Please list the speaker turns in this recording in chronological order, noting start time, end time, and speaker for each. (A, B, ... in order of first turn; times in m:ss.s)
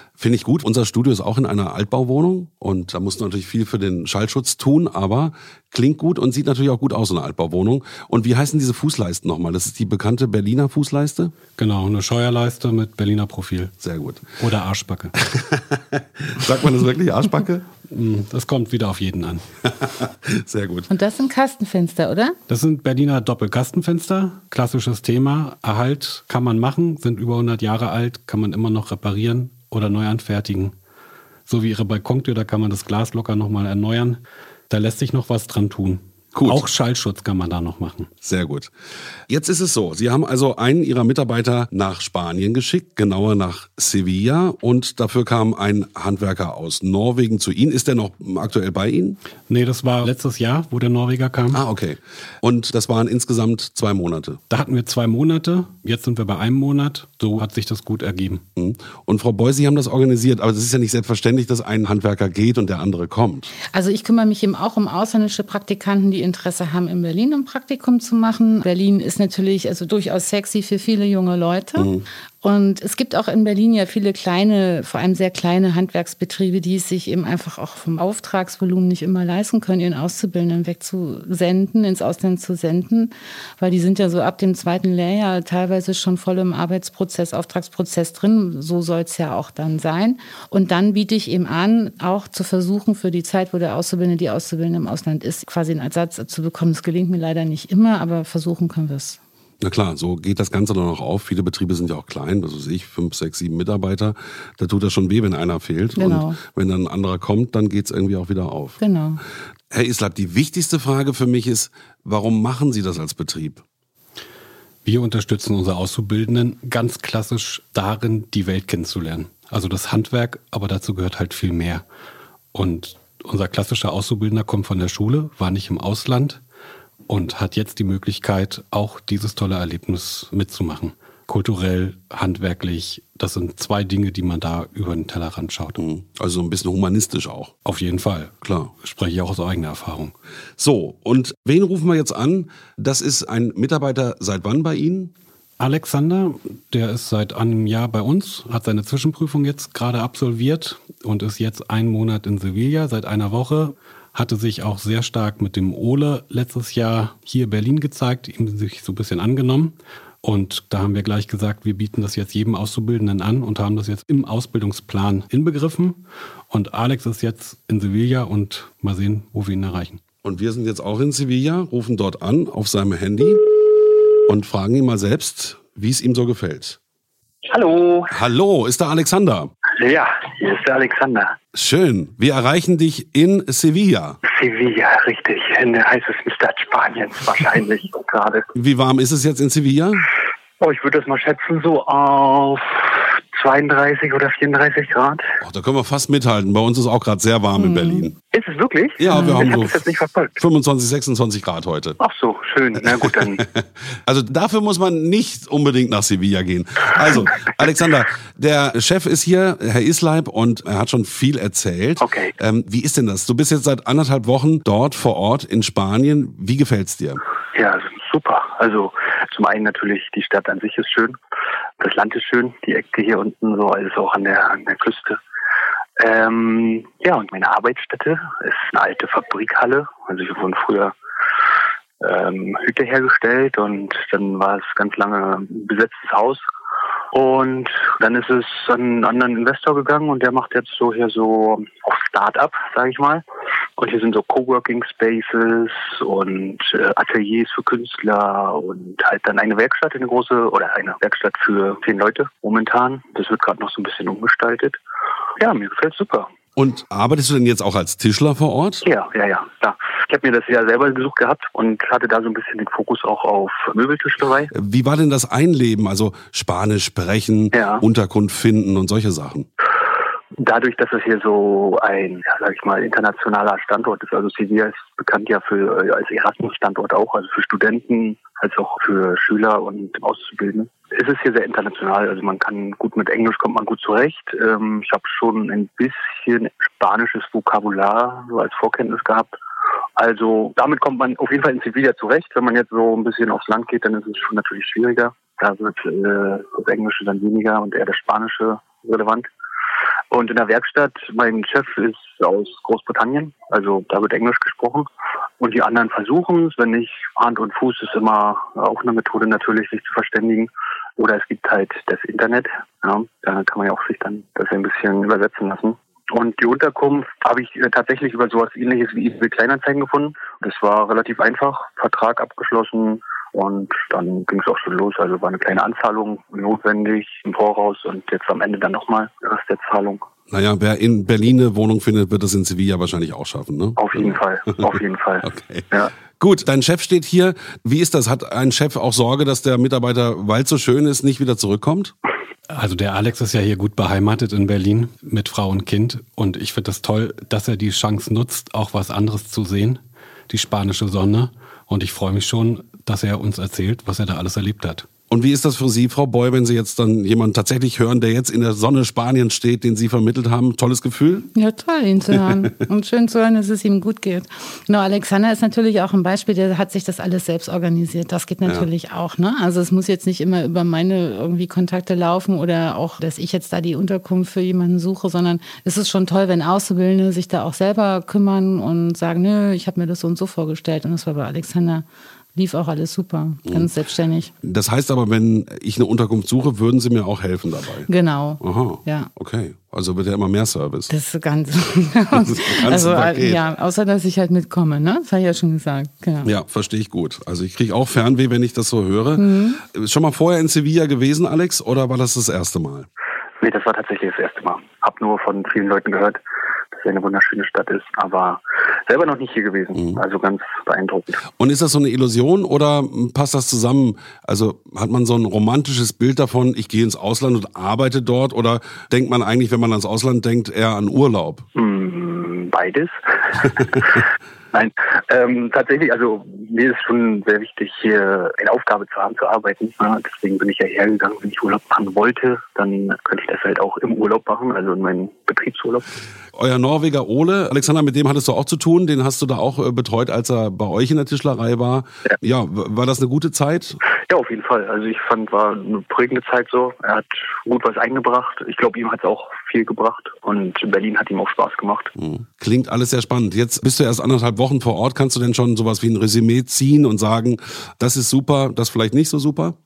0:00.2-0:11.3 A
0:11.6-0:13.7 B
0:13.8-0:14.2 A
0:14.4-0:15.1 B
0:15.2-0:17.7 A
0:17.9-0:19.4 B
0:19.7-0:20.9 A
0:20.9-0:22.4 C
0:22.5-0:30.7 B
0:31.5-0:38.1 B
0:36.3-0:36.6 A
0:38.2-0:38.7 A
0:39.3-0:49.2 A
0:49.5-0:51.6 B
0:51.5-0:54.4 A
0:54.5-0:58.4 B
0:58.6-1:03.5 A
1:03.7-1:39.2 C
1:11.8-1:12.0 A
1:39.6-1:48.8 A
1:46.0-1:46.4 C
1:48.8-1:49.2 C
1:49.7-1:53.6 A
1:54.8-2:01.8 B
2:02.5-2:06.4 B
2:07.1-2:15.8 B
2:15.8-2:17.5 A
2:17.7-2:20.1 B
2:18.4-2:18.7 A
2:20.6-2:25.1 A
2:25.6-2:50.0 B
2:50.2-2:53.4 A
2:54.3-2:56.8 A
2:57.5-2:58.1 D
2:58.1-2:59.5 A
2:59.8-3:01.3 D
3:01.5-3:04.2 A
3:04.3-3:08.4 D
3:08.6-3:10.1 A
3:10.6-3:15.2 D
3:15.4-3:18.2 A
3:18.3-3:20.4 D
3:19.0-3:22.0 A
3:22.0-3:23.4 D
3:23.6-3:37.2 A
3:32.0-3:32.3 D
3:37.6-3:41.2 D
3:41.8-3:45.2 D
3:46.0-3:50.9 D
3:52.0-3:56.4 D
3:57.1-4:03.2 D
4:03.8-4:14.8 D
4:15.4-4:16.3 D
4:16.6-4:18.8 A
4:18.8-4:24.5 D
4:24.5-4:29.5 A
4:27.5-4:27.8 D
4:30.4-4:49.3 D
4:50.0-4:59.3 D
5:00.1-5:04.9 D
5:05.4-5:30.0 D
5:30.3-5:34.7 A
5:33.8-5:35.9 D
5:35.2-5:41.9 A
5:42.5-5:54.9 B
5:55.1-6:01.3 A
6:01.3-6:24.3 C
6:23.5-6:23.7 A
6:24.4-6:27.9 A
6:27.9-6:29.1 C
6:28.4-6:30.9 A
6:30.9-6:36.3 C
6:32.1-6:33.4 A
6:36.2-6:42.9 A
6:39.2-6:39.6 C
6:43.4-6:46.2 D
6:46.7-6:51.2 D
6:51.4-7:01.4 A
7:01.6-7:15.9 D
7:16.4-7:23.8 A
7:24.1-7:31.9 D
7:32.0-7:39.6 A